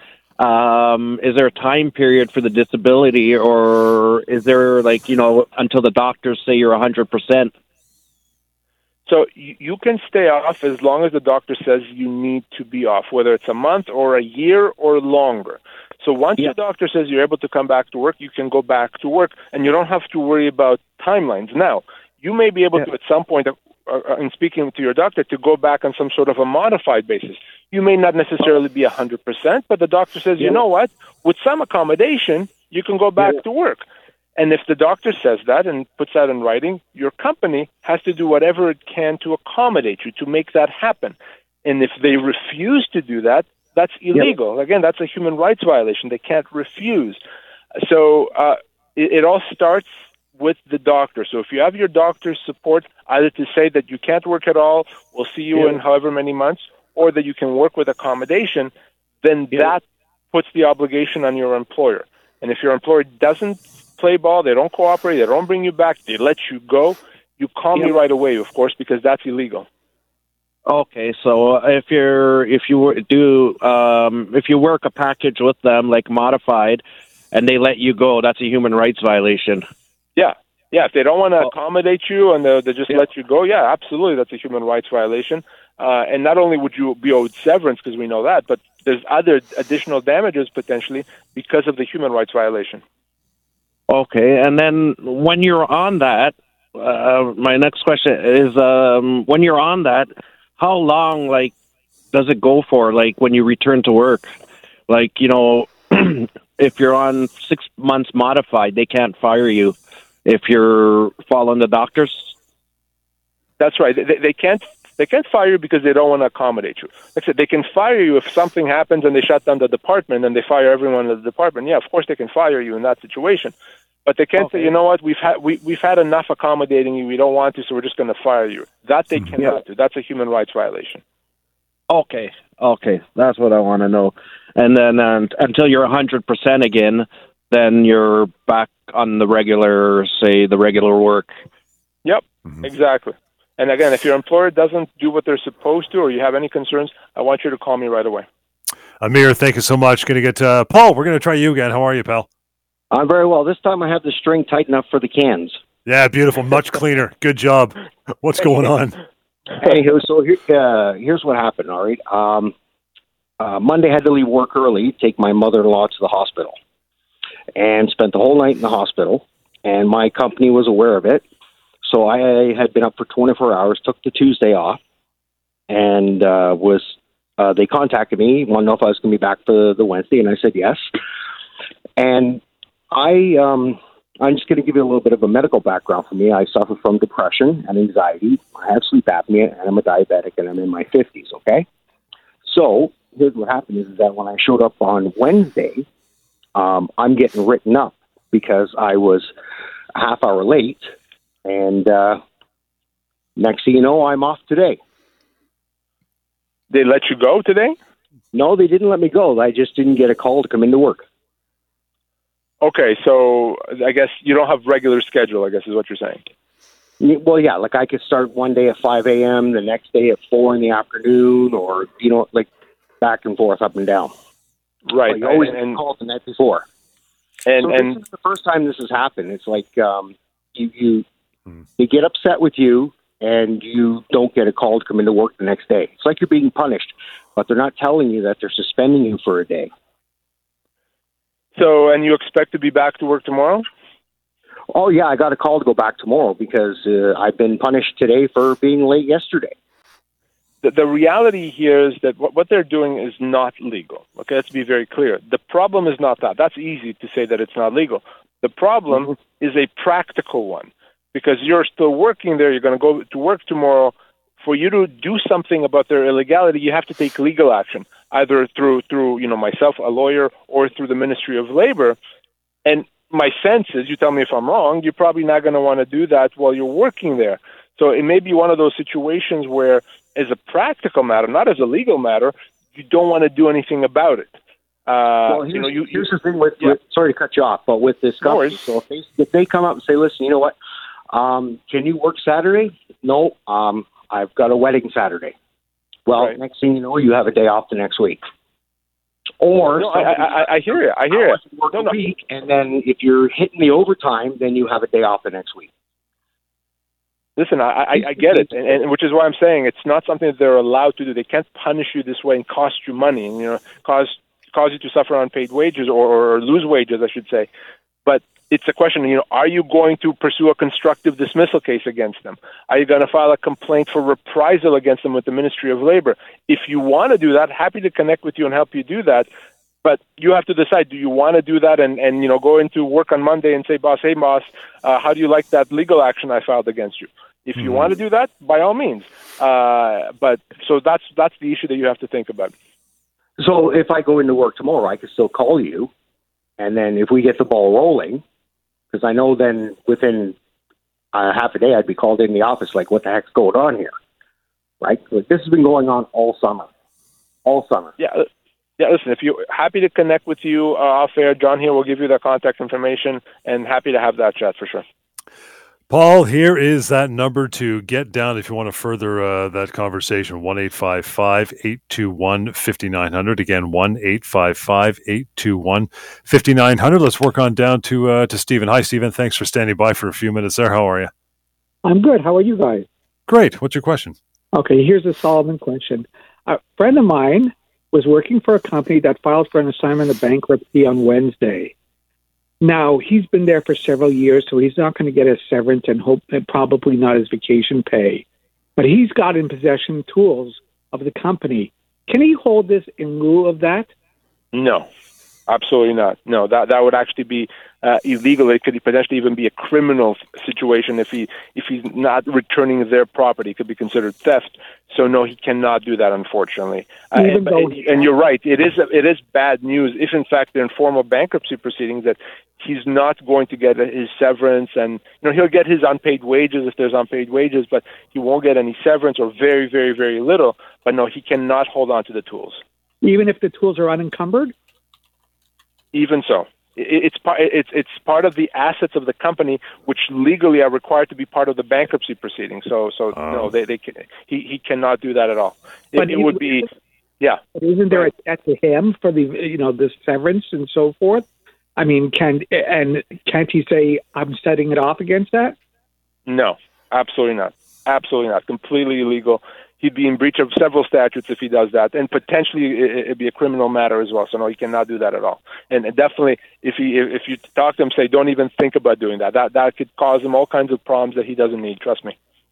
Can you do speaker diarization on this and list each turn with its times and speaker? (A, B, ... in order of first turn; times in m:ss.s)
0:00.4-0:07.5 A
0:09.1-0:33.8 B
0:34.4-0:47.2 B
0:47.8-0:58.7 B
0:59.2-1:09.6 B
1:10.7-1:19.6 A
1:20.2-1:32.8 B
1:33.9-1:41.5 A
1:42.1-1:44.3 A
1:44.9-1:52.3 A
1:53.6-2:03.5 B
2:04.0-2:11.0 B
2:11.9-2:21.4 A
2:22.0-2:28.2 B
2:29.0-2:32.3 C
2:32.9-2:35.6 D
2:35.8-2:39.0 C
2:39.6-2:42.5 D
2:43.4-2:46.5 D
2:47.5-2:51.2 D
2:51.8-2:54.8 D
2:55.7-3:00.9 D
3:02.0-3:11.6 D
3:12.4-3:15.8 D
3:16.5-3:19.3 D
3:19.9-3:20.9 D
3:21.4-3:22.2 D
3:23.4-3:24.8 D
3:26.7-3:27.8 B
3:28.3-3:31.0 D
3:32.6-3:36.2 B
3:37.0-3:42.5 D
3:43.0-3:44.1 D
3:44.9-3:45.8 B
3:45.0-3:46.6 D
3:47.4-3:48.0 B
3:47.6-3:51.0 D
3:51.8-3:59.7 D
4:01.5-4:03.6 B
4:04.7-4:09.5 D
4:10.6-4:32.0 B
4:32.6-4:44.3 B
4:44.9-4:46.1 B
4:45.3-4:50.5 D
4:48.2-4:48.6 B
4:51.1-4:55.3 D
4:56.1-4:58.2 D
4:59.4-5:00.5 D
4:59.8-5:01.9 B
5:01.1-5:05.7 D
5:07.4-5:17.5 B
5:18.0-5:29.3 B
5:29.8-5:42.5 B
5:43.4-5:45.9 D
5:46.6-5:48.2 D
5:48.9-5:50.4 D
5:51.1-5:53.9 D
5:54.8-5:56.7 D
5:57.4-5:57.9 D
5:58.0-5:58.3 B
5:58.8-6:04.8 B
6:05.9-6:21.1 C
6:21.8-6:22.9 E
6:23.3-6:24.2 C
6:24.5-6:31.7 E
6:32.6-6:38.2 E
6:38.8-6:43.9 E
6:44.5-6:44.9 B
6:45.5-7:12.6 B
6:57.1-6:58.0 E
7:13.0-7:14.5 E
7:15.9-7:26.7 B
7:23.2-7:23.5 C
7:26.0-7:26.7 E
7:27.2-7:28.1 B
7:27.5-7:31.2 E
7:31.8-7:35.6 E
7:36.3-7:52.1 B